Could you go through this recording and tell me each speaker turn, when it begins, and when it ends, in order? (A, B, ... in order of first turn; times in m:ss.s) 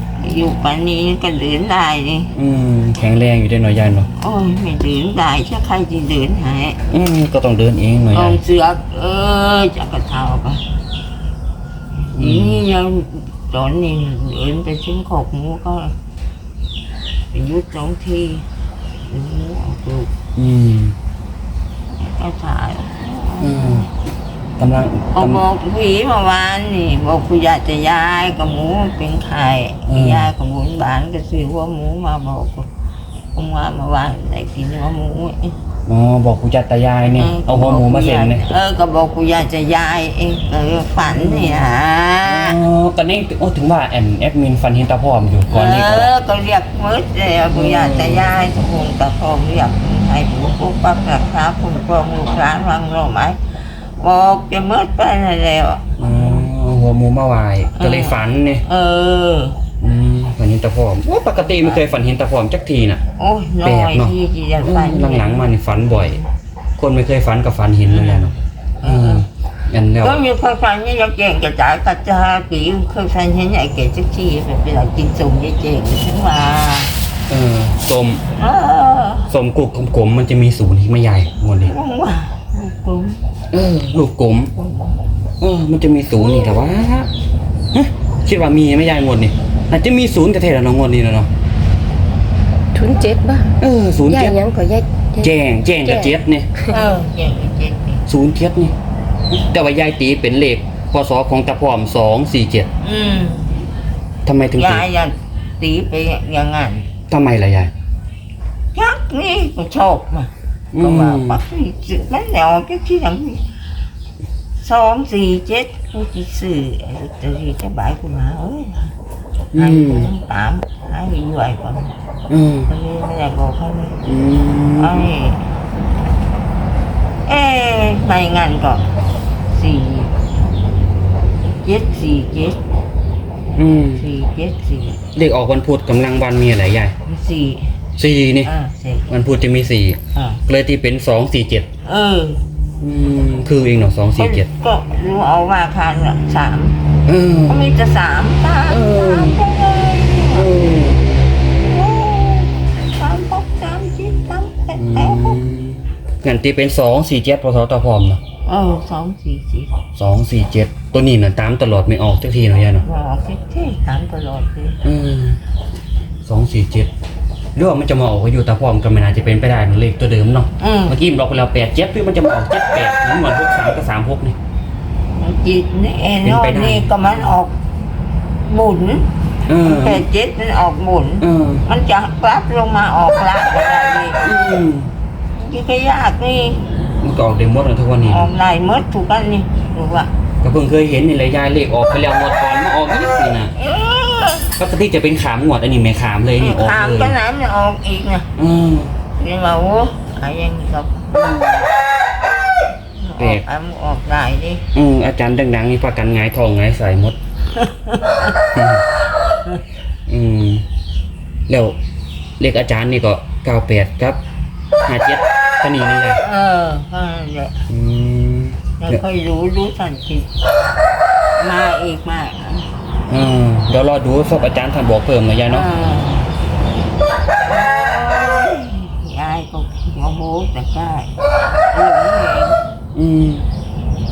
0:00.2-0:02.3 A
0:02.3-0:04.1 B
0:04.1-0:06.8 A
0:06.9-0:08.4 B
0:08.1-0:10.6 A
0:12.1-0:15.9 A
0:12.1-0:12.6 B
0:17.3-0:18.4 A
0:19.0-0:20.1 A
0:20.4-0:21.0 B
0:21.9-0:23.9 A
0:23.4-0:23.9 B
0:24.6-0:25.4 B
0:25.1-0:32.7 A
0:29.9-0:30.3 B
0:33.3-0:35.6 A
0:35.9-0:38.5 B
0:37.1-0:42.6 A
0:41.0-0:46.1 B
0:45.5-0:53.4 A
0:47.5-0:48.3 B
0:54.0-0:56.5 A
0:56.0-0:58.6 B
0:57.8-0:59.6 A
0:59.8-1:03.0 B
1:01.4-1:01.9 A
1:03.2-1:06.3 A
1:03.6-1:06.2 B
1:06.8-1:10.2 B
1:07.9-1:09.2 A
1:10.0-1:16.9 A
1:17.3-1:18.2 B
1:18.4-1:19.3 A
1:19.3-1:21.7 B
1:21.6-1:23.2 A
1:23.5-1:24.5 B
1:24.5-1:25.0 A
1:25.4-1:27.1 B
1:27.7-1:31.3 B
1:32.7-1:33.5 C
1:33.6-1:34.4 B
1:34.0-1:35.3 C
1:35.2-1:36.5 B
1:35.8-1:36.8 C
1:36.7-1:38.0 A
1:38.1-1:38.7 B
1:39.3-1:42.7 B
1:42.8-1:43.5 A
1:44.2-1:44.8 B
1:44.5-1:46.9 A
1:47.1-1:47.7 B
1:48.7-1:53.4 A
1:50.7-1:51.4 B
1:54.6-1:58.9 A
1:59.5-2:00.1 B
1:59.5-2:01.9 A
2:02.3-2:02.7 B
2:02.7-2:04.0 A
2:04.0-2:05.1 B
2:04.8-2:05.5 A
2:07.2-2:08.9 A
2:09.5-2:10.2 A
2:11.6-2:12.6 A
2:13.6-2:14.0 B
2:13.6-2:15.0 A
2:15.1-2:16.9 B
2:17.0-2:17.7 A
2:18.0-2:18.5 B
2:18.4-2:19.1 A
2:19.1-2:21.7 B
2:20.1-2:20.4 A
2:21.8-2:22.4 A
2:22.8-2:24.5 B
2:24.2-2:26.8 A
2:27.0-2:27.6 B
2:27.5-2:30.9 A
2:28.7-2:29.4 B
2:30.3-2:31.0 B
2:31.6-2:35.4 A
2:34.8-2:38.2 B
2:38.4-2:39.8 A
2:40.0-2:42.8 B
2:42.8-2:44.8 A
2:44.8-2:45.4 B
2:46.2-2:46.9 B
2:47.5-2:54.4 B
2:50.6-2:51.0 A
2:55.2-2:57.6 A
2:56.2-2:57.4 B
2:58.4-2:59.1 A
2:59.5-3:00.0 B
2:59.6-3:04.2 A
3:01.2-3:01.6 B
3:04.2-3:04.9 B
3:05.4-3:06.6 A
3:07.0-3:08.3 B
3:08.0-3:10.1 A
3:10.4-3:13.5 B
3:13.6-3:14.5 A
3:14.6-3:17.2 B
3:16.4-3:18.3 A
3:18.4-3:18.9 B
3:19.2-3:21.1 A
3:21.1-3:21.7 B
3:23.0-3:24.6 A
3:23.2-3:23.4 B
3:24.7-3:27.2 B
3:27.5-3:28.3 A
3:28.5-3:28.8 B
3:30.1-3:30.6 B
3:31.5-3:31.8 B
3:32.4-3:34.2 B
3:34.8-3:36.2 B
3:36.2-3:37.5 A
3:37.7-3:39.0 B
3:38.8-3:40.4 A
3:41.4-3:42.7 A
3:43.1-3:45.7 B
3:45.5-3:46.3 A
3:47.4-3:51.1 A
3:51.7-3:52.6 A
3:52.9-3:53.5 B